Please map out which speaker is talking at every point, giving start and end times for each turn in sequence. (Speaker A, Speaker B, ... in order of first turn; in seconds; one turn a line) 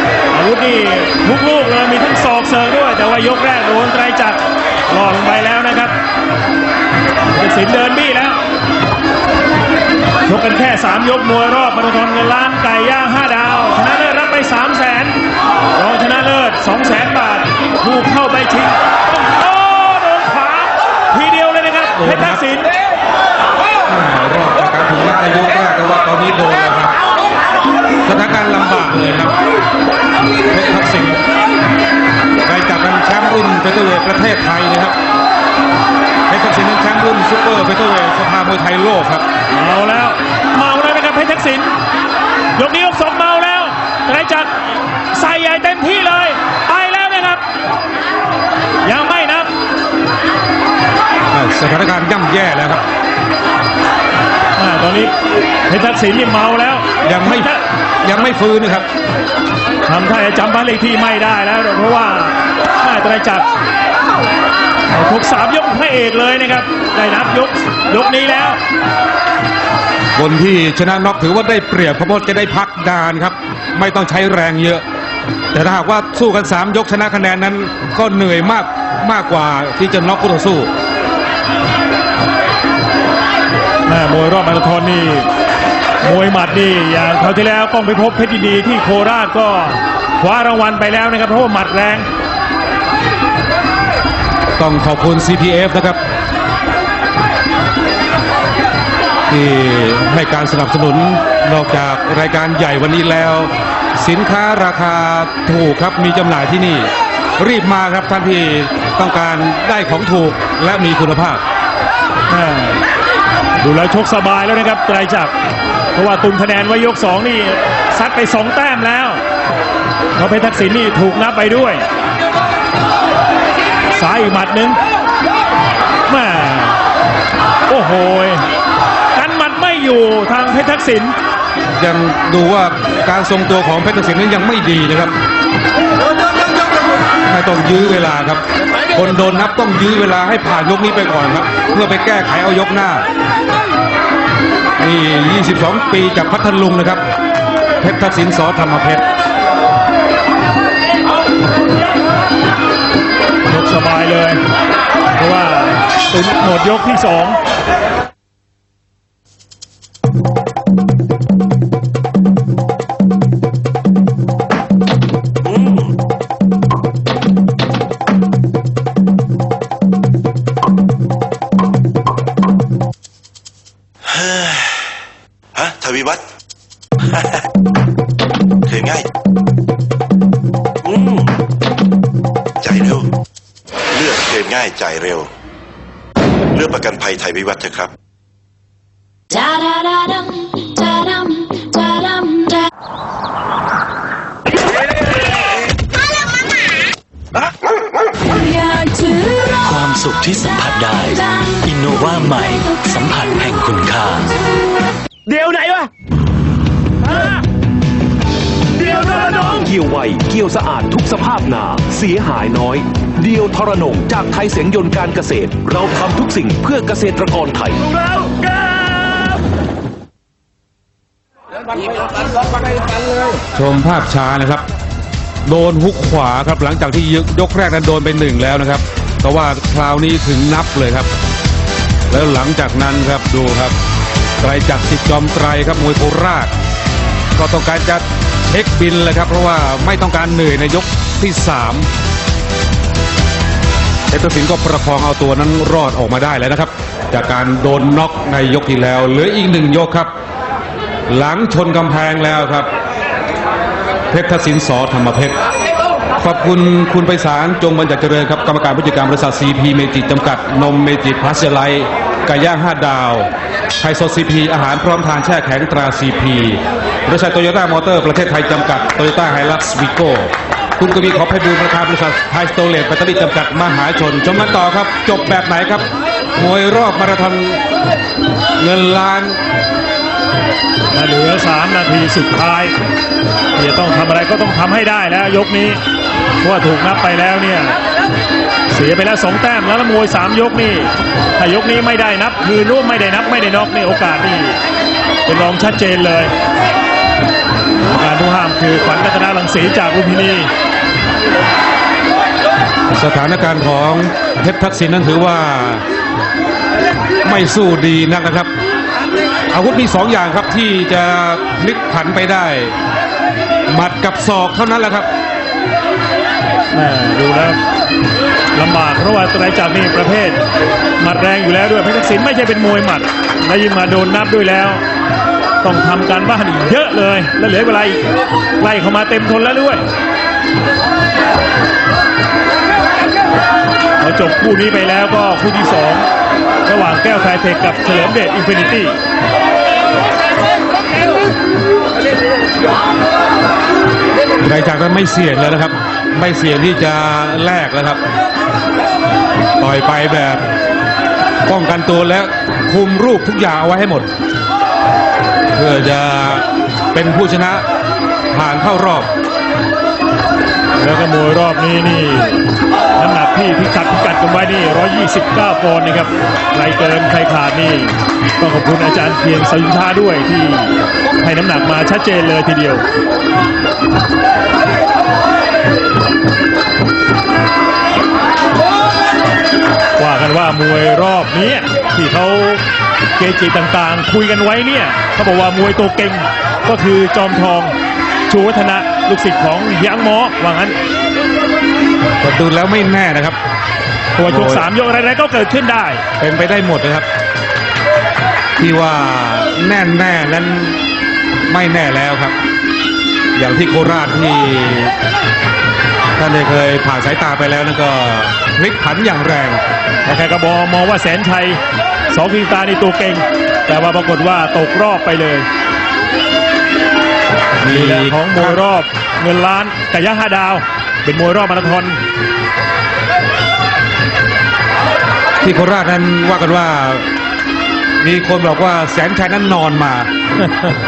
Speaker A: 0.3-6.0
Speaker A: 7.3-8.4
Speaker A: 10.3-15.2
Speaker A: 15.8-18.8
Speaker A: 19.3-22.7
Speaker B: 22.0-22.4
Speaker B: 23.9-27.0
Speaker B: 28.1-29.4
Speaker B: 30.5-31.2
Speaker B: 32.4-35.0
Speaker B: 36.3-39.3
Speaker A: 39.5-41.7
Speaker A: 42.6-44.5
Speaker A: 45.1-47.4
Speaker A: 48.9-49.5
Speaker B: 51.3-52.8
Speaker A: 54.6-55.1
Speaker A: 55.7-57.6
Speaker B: 57.0-57.5
Speaker B: 58.0-58.9
Speaker A: 59.9-63.5
Speaker A: 64.9-68.6
Speaker B: 70.2-74.8
Speaker B: 75.5-80.7
Speaker A: 83.9-85.3
Speaker A: 86.0-92.1
Speaker B: 94.6-96.0
Speaker B: 99.3-111.4
Speaker A: 112.3-112.8
Speaker A: 113.6-115.3
Speaker A: 116.0-119.2
Speaker A: 120.2-121.8
Speaker A: 124.0-124.8
Speaker A: 126.1-126.8
Speaker A: 127.7-128.4
Speaker A: 129.1-131.2
Speaker B: 131.8-135.1
Speaker B: 137.3-143.1
Speaker B: 144.8-147.0
Speaker B: 147.8-149.1
Speaker A: 153.5-154.4
Speaker A: 155.2-157.4
Speaker C: 174.1-174.8
Speaker C: 175.6-176.2
Speaker C: 178.7-179.1
Speaker C: 180.9-181.2
Speaker C: 182.6-183.1
Speaker C: 183.9-185.3
Speaker C: 186.5-187.9
Speaker D: 189.4-192.6
Speaker D: 198.4-199.6
Speaker E: 199.6-204.3
Speaker F: 205.4-205.7
Speaker F: 208.8-217.8
Speaker B: 223.5-224.6
Speaker B: 225.5-231.1
Speaker B: 232.1-233.8
Speaker B: 234.4-236.5
Speaker B: 237.4-241.9
Speaker B: 244.1-250.1
Speaker B: 251.1-252.7
Speaker B: 254.1-255.4
Speaker B: 256.2-263.3
Speaker B: 263.8-275.9
Speaker B: 276.4-277.6
Speaker B: 278.6-279.4
Speaker A: 280.9-282.8
Speaker A: 283.6-285.8
Speaker A: 286.4-287.8
Speaker A: 288.7-294.6
Speaker A: 295.3-296.3
Speaker A: 298.0-300.5
Speaker B: 302.9-305.8
Speaker B: 307.2-308.5
Speaker B: 309.5-312.8
Speaker B: 313.7-315.1
Speaker A: 316.7-317.6
Speaker A: 318.6-320.4
Speaker A: 321.0-324.8
Speaker A: 325.6-328.1
Speaker A: 328.6-329.9
Speaker A: 334.0-336.1
Speaker A: 336.7-339.0
Speaker B: 344.4-348.0
Speaker B: 349.6-350.4
Speaker B: 351.5-354.1
Speaker B: 355.6-357.6
Speaker B: 358.3-359.1
Speaker A: 360.8-362.4
Speaker A: 363.0-372.8
Speaker A: 380.0-382.6
Speaker A: 383.2-387.8
Speaker A: 388.3-390.8
Speaker B: 392.2-393.4
Speaker A: 394.2-396.0
Speaker B: 394.2-394.6
Speaker B: 396.2-397.1
Speaker B: 398.6-400.8
Speaker B: 401.5-402.4
Speaker B: 403.4-404.9
Speaker B: 406.2-409.6
Speaker A: 410.1-411.6
Speaker A: 412.1-415.5
Speaker B: 417.6-418.6
Speaker A: 417.6-422.0
Speaker B: 425.4-427.1
Speaker B: 428.0-430.1